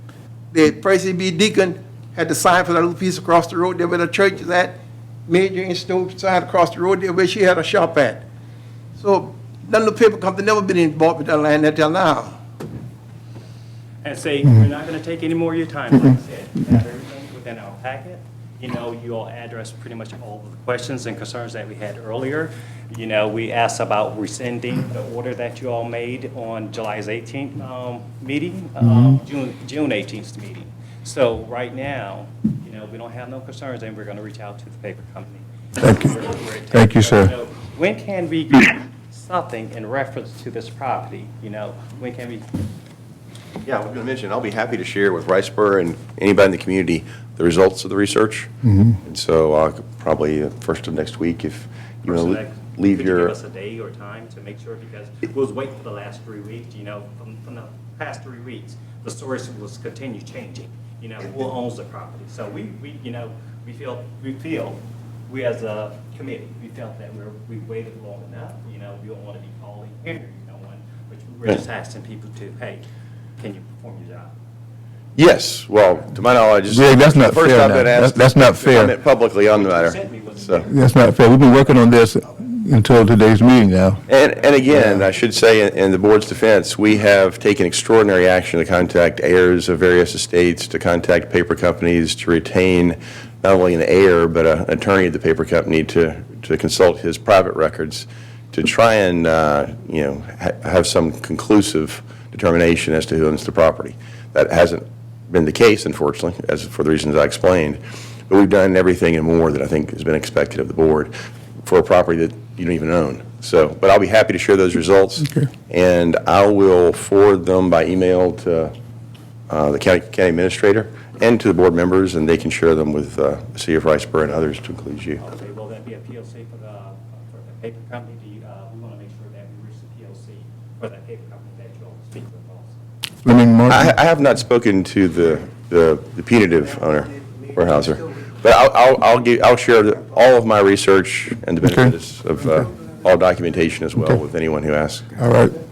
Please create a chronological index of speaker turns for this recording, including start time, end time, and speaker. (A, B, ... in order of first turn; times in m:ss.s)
0:00.5-0:08.2 A
0:08.9-0:12.4 A
0:14.0-0:42.4 B
0:35.8-0:36.2 C
0:36.7-0:37.3 C
0:43.6-0:48.5 D
0:48.6-0:48.9 C
0:49.0-0:53.3 D
0:52.0-1:12.8 B
1:13.4-1:14.3 B
1:15.2-1:20.6 D
1:16.7-1:18.9 C
1:19.5-1:20.8 B
1:20.7-1:24.0 C
1:24.1-1:51.1 D
1:24.7-1:25.0 C
1:51.6-1:58.7 D
1:59.5-2:05.2 D
2:05.2-2:12.8 B
2:13.2-2:13.9 C
2:13.7-2:25.1 D
2:21.6-2:21.9 C
2:25.2-2:25.6 C